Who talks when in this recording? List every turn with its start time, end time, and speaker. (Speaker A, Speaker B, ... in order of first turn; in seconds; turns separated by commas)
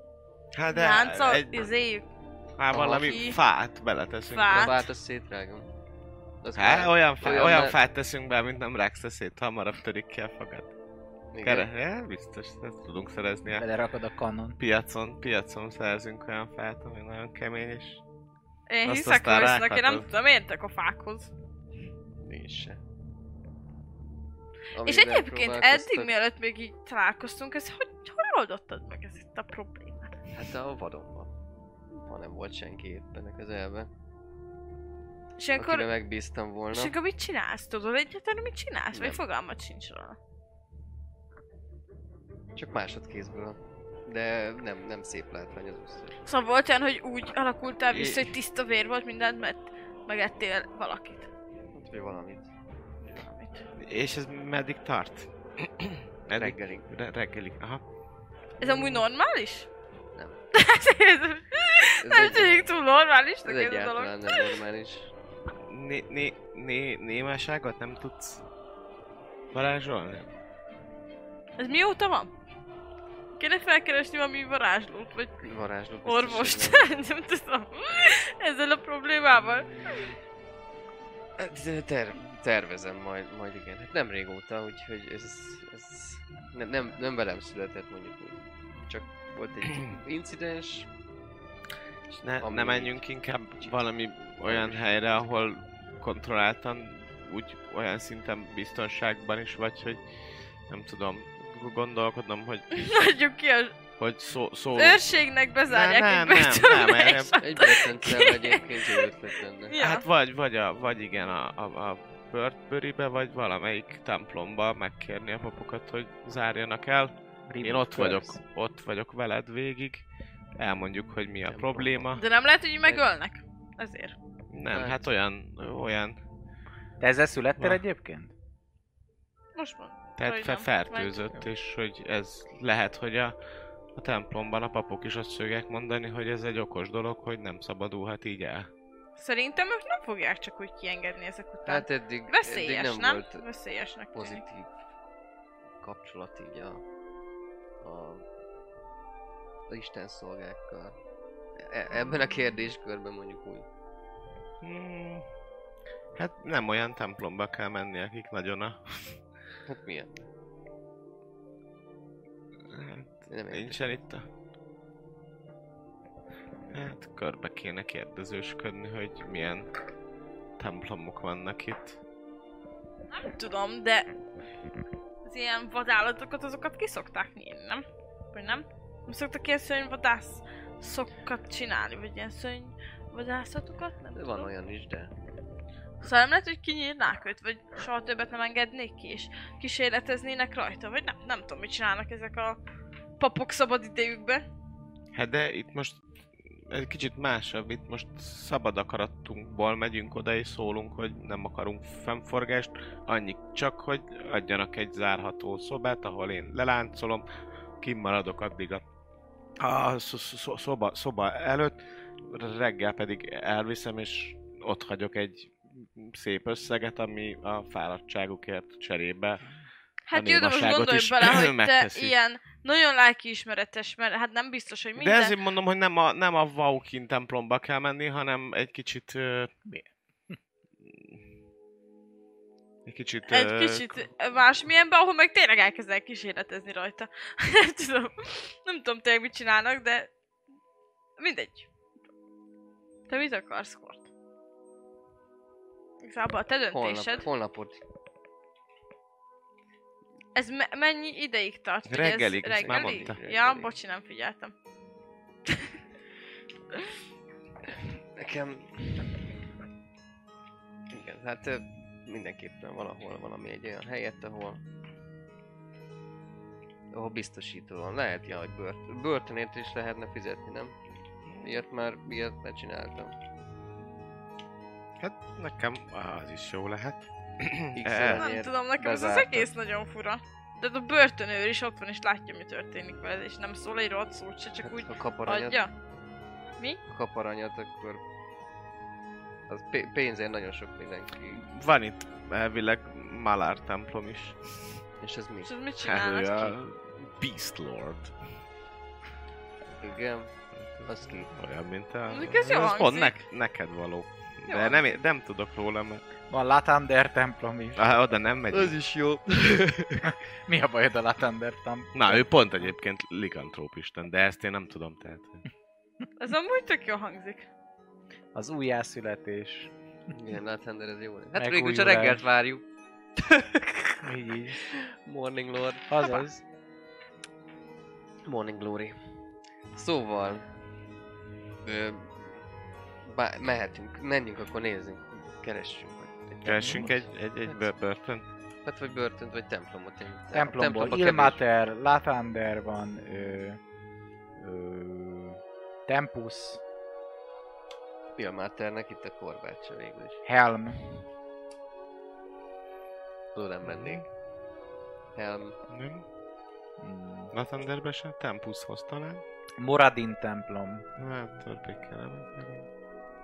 Speaker A: 0.5-1.7, Speaker B: 0.7-2.1, Speaker A: 2.6-4.8, Speaker C: 2.7-3.3, Speaker B: 3.0-3.4, Speaker B: 4.3-4.7, Speaker C: 4.5-5.7, Speaker C: 6.4-7.8, Speaker A: 6.6-10.7, Speaker C: 11.3-11.7, Speaker A: 11.4-13.7, Speaker D: 13.5-14.6, Speaker A: 14.6-18.0, Speaker B: 18.7-21.3, Speaker A: 18.8-20.1, Speaker C: 22.2-22.8, Speaker C: 24.7-26.1, Speaker B: 24.8-30.1, Speaker C: 30.3-31.3, Speaker C: 32.0-33.9, Speaker B: 35.4-35.9, Speaker C: 35.6-37.0, Speaker B: 36.7-40.2, Speaker C: 38.9-39.2, Speaker C: 42.5-46.2, Speaker B: 46.2-51.3, Speaker A: 47.9-48.2, Speaker C: 51.7-52.5, Speaker B: 53.1-53.7, Speaker A: 53.8-57.8, Speaker C: 56.3-56.9, Speaker B: 58.6-59.7, Speaker C: 58.6-59.1, Speaker C: 60.1-60.4, Speaker B: 60.5-64.4, Speaker C: 62.0-62.6, Speaker C: 63.5-65.1, Speaker A: 65.6-68.4, Speaker A: 69.5-70.3, Speaker B: 71.6-72.3, Speaker B: 73.4-75.4, Speaker C: 75.4-76.9, Speaker B: 76.0-79.8, Speaker C: 81.4-90.9, Speaker A: 92.1-100.0, Speaker C: 92.4-93.0, Speaker C: 94.4-95.3, Speaker A: 100.7-103.1, Speaker B: 102.7-103.8, Speaker A: 104.0-107.7, Speaker B: 104.8-109.1, Speaker C: 107.4-109.8, Speaker B: 109.7-110.0, Speaker A: 109.8-120.0, Speaker D: 117.5-118.4, Speaker A: 120.6-122.2, Speaker C: 121.5-122.0, Speaker B: 122.2-124.2, Speaker A: 124.5-126.2, Speaker C: 124.7-125.1, Speaker D: 127.0-128.3, Speaker B: 129.6-131.3, Speaker A: 130.2-133.4, Speaker A: 133.9-138.7, Speaker B: 139.2-144.4, Speaker C: 141.7-143.4, Speaker C: 144.1-144.7, Speaker C: 145.8-146.8, Speaker C: 147.8-148.3, Speaker C: 149.7-151.0, Speaker C: 151.6-153.7, Speaker A: 154.6-155.3, Speaker A: 156.2-159.2, Speaker C: 159.7-160.3, Speaker A: 162.7-164.2, Speaker C: 163.3-164.0, Speaker A: 166.7-169.7, Speaker A: 170.6-172.0, Speaker B: 173.1-174.1, Speaker B: 175.2-184.5, Speaker C: 184.1-185.1, Speaker B: 186.0-192.6, Speaker B: 193.2-194.4, Speaker A: 195.1-196.0, Speaker A: 196.7-207.2, Speaker A: 207.8-208.8, Speaker A: 209.6-219.4, Speaker B: 220.1-225.4, Speaker A: 220.1-222.2, Speaker A: 225.0-229.5, Speaker A: 232.9-234.1, Speaker B: 233.3-240.1, Speaker B: 241.2-241.7, Speaker B: 243.1-244.1, Speaker B: 246.0-247.3, Speaker C: 246.7-247.8, Speaker B: 250.3-254.5, Speaker A: 251.9-253.2, Speaker C: 252.6-253.8, Speaker C: 257.7-259.2, Speaker C: 260.9-264.6, Speaker C: 266.9-270.8, Speaker A: 271.3-271.6, Speaker C: 271.4-273.1, Speaker A: 275.0-278.3, Speaker C: 277.7-279.6, Speaker B: 278.2-285.7, Speaker C: 284.6-285.6, Speaker C: 286.9-288.0, Speaker C: 289.5-291.4, Speaker A: 291.3-294.8, Speaker C: 295.0-295.5, Speaker B: 295.4-296.6, Speaker A: 295.8-298.1, Speaker C: 299.8-300.3, Speaker A: 300.6-306.1, Speaker C: 300.9-301.3, Speaker B: 302.1-303.1, Speaker B: 304.5-304.8, Speaker D: 306.3-307.8, Speaker A: 307.8-308.8, Speaker C: 308.5-310.2, Speaker D: 310.0-312.7, Speaker A: 311.9-315.4, Speaker B: 316.2-317.5, Speaker D: 318.3-319.7, Speaker C: 320.1-322.6, Speaker D: 321.4-322.2, Speaker C: 323.2-325.9, Speaker D: 324.0-324.6, Speaker D: 325.9-326.4, Speaker C: 328.2-328.9, Speaker C: 329.7-330.5, Speaker C: 331.6-332.4, Speaker C: 333.0-337.7, Speaker A: 336.4-338.3, Speaker D: 336.5-336.9, Speaker C: 338.6-341.4, Speaker D: 340.3-343.6, Speaker D: 344.4-346.6, Speaker C: 348.2-350.2, Speaker D: 350.2-350.9, Speaker C: 353.3-354.1, Speaker A: 353.7-354.1, Speaker C: 355.1-355.6, Speaker A: 355.7-356.1, Speaker D: 356.8-357.3, Speaker A: 357.3-359.2, Speaker D: 359.6-360.9, Speaker A: 361.0-362.7